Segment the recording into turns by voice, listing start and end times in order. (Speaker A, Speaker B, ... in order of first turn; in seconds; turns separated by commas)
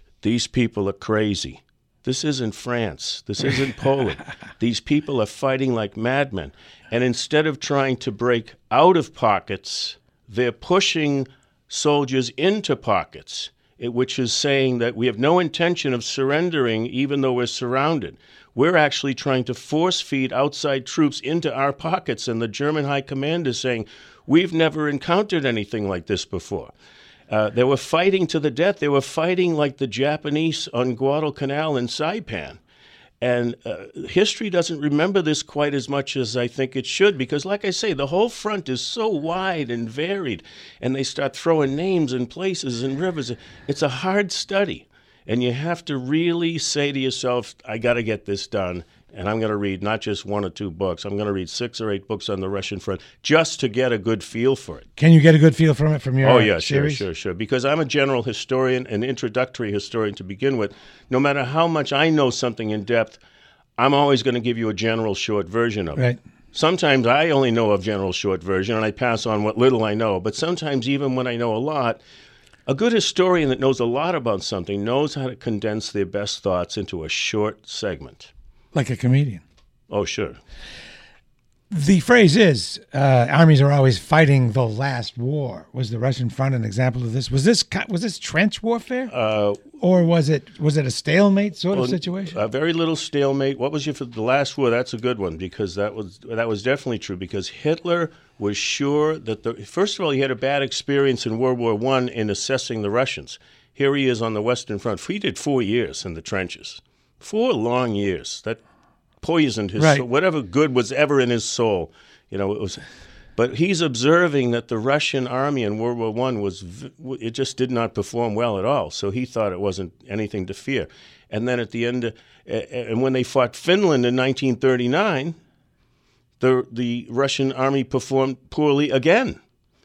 Speaker A: 0.2-26.7, Speaker A: 27.3-32.6, Speaker A: 33.2-54.9, Speaker B: 55.0-57.0, Speaker A: 56.2-63.2, Speaker A: 63.8-66.0, Speaker A: 66.5-72.0, Speaker A: 72.7-78.3, Speaker B: 78.7-79.4, Speaker A: 79.9-80.4, Speaker B: 81.7-89.1, Speaker A: 89.1-89.7, Speaker B: 89.8-92.4, Speaker A: 91.7-108.6, Speaker A: 109.2-112.8, Speaker B: 109.8-110.0, Speaker A: 113.3-125.4, Speaker A: 126.4-129.4